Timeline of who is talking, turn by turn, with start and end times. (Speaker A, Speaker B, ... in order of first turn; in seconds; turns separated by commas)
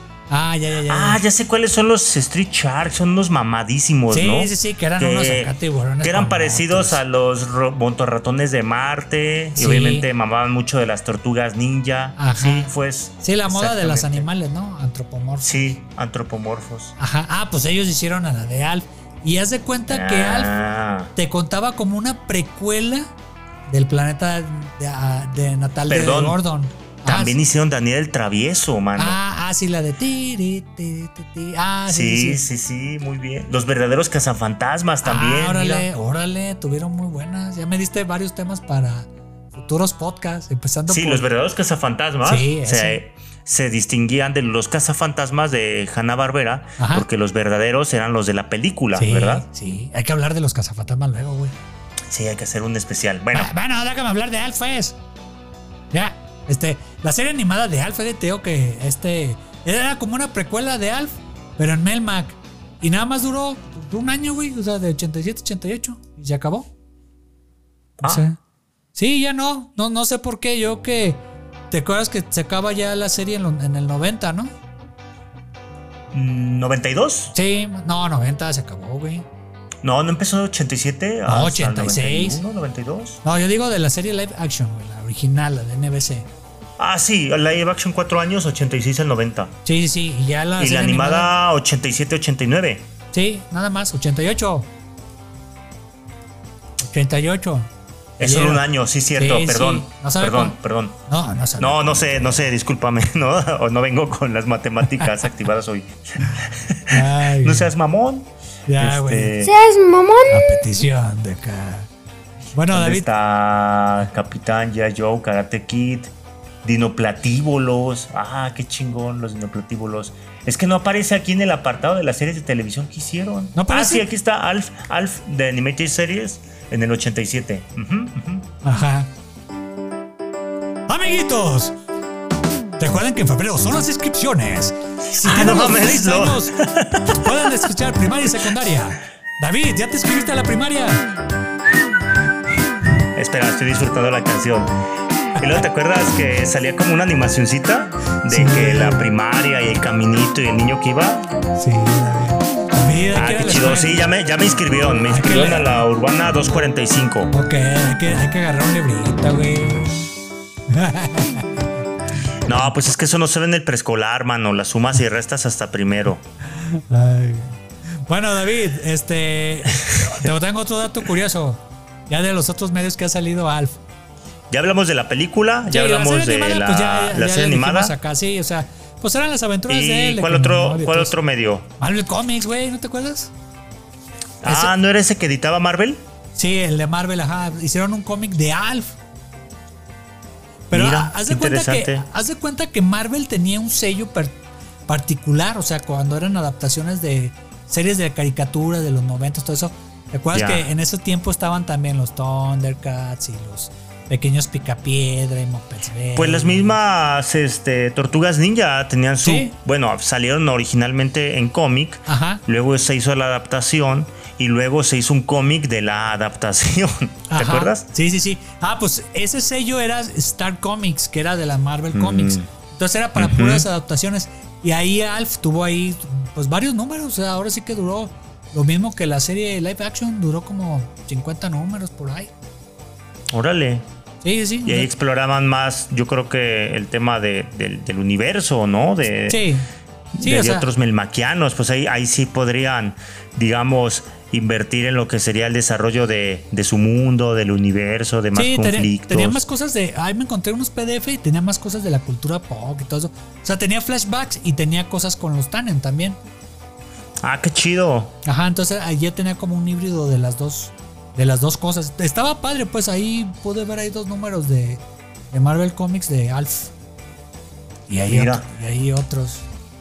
Speaker A: 0.3-1.2, Speaker B: 0.9-14.3, Speaker A: 4.1-7.0, Speaker A: 9.6-10.1, Speaker A: 12.2-15.8, Speaker B: 15.4-17.0, Speaker A: 17.0-20.5, Speaker B: 19.9-21.1, Speaker A: 21.1-23.1, Speaker A: 23.7-27.4, Speaker B: 25.9-26.4, Speaker B: 27.1-29.2, Speaker A: 29.0-32.4, Speaker B: 31.9-35.9, Speaker A: 35.0-41.2, Speaker B: 40.9-49.5, Speaker A: 42.2-43.0, Speaker A: 46.8-47.1, Speaker A: 48.9-51.5, Speaker B: 52.1-53.5, Speaker A: 53.3-55.0, Speaker A: 55.9-66.7, Speaker B: 68.0-68.2, Speaker A: 68.0-68.4, Speaker A: 69.0-74.5, Speaker B: 76.1-77.3, Speaker A: 77.3-79.3, Speaker B: 79.8-83.2, Speaker A: 81.3-82.4, Speaker A: 83.2-86.3, Speaker B: 86.8-89.5, Speaker A: 89.7-91.3, Speaker B: 90.6-92.9, Speaker A: 93.1-94.7, Speaker A: 96.8-97.7, Speaker B: 98.2-101.0, Speaker A: 98.2-102.5, Speaker B: 101.6-109.6, Speaker A: 106.9-107.7, Speaker A: 108.7-109.4, Speaker A: 110.3-111.9, Speaker A: 112.5-113.1, Speaker B: 112.7-128.5, Speaker A: 123.5-124.1, Speaker A: 128.6-129.1, Speaker A: 130.9-131.8, Speaker A: 132.8-136.6, Speaker B: 135.2-137.3, Speaker A: 137.1-141.1, Speaker B: 143.1-144.8, Speaker B: 145.4-151.3, Speaker A: 148.3-149.1, Speaker A: 151.6-154.0, Speaker B: 153.1-157.3, Speaker A: 155.1-155.7, Speaker A: 157.3-160.1, Speaker A: 160.7-161.7, Speaker B: 162.5-166.2, Speaker A: 166.5-173.8, Speaker B: 174.5-177.9, Speaker A: 175.7-181.2, Speaker B: 179.7-181.7, Speaker A: 181.8-183.3, Speaker B: 184.4-186.0, Speaker A: 184.4-184.7, Speaker A: 186.3-189.0, Speaker A: 190.7-206.8, Speaker B: 190.7-192.1, Speaker B: 200.3-200.7, Speaker B: 206.1-217.9, Speaker A: 209.2-209.5, Speaker A: 212.1-212.4, Speaker A: 217.3-232.3, Speaker B: 221.9-222.5, Speaker B: 223.2-223.7, Speaker B: 233.3-233.8, Speaker A: 234.2-234.9, Speaker B: 234.7-239.4, Speaker A: 239.3-240.7, Speaker B: 240.1-249.4, Speaker A: 248.3-256.2, Speaker B: 257.2-258.2, Speaker A: 258.2-264.8, Speaker A: 265.3-266.7, Speaker A: 267.9-269.5, Speaker B: 268.1-268.5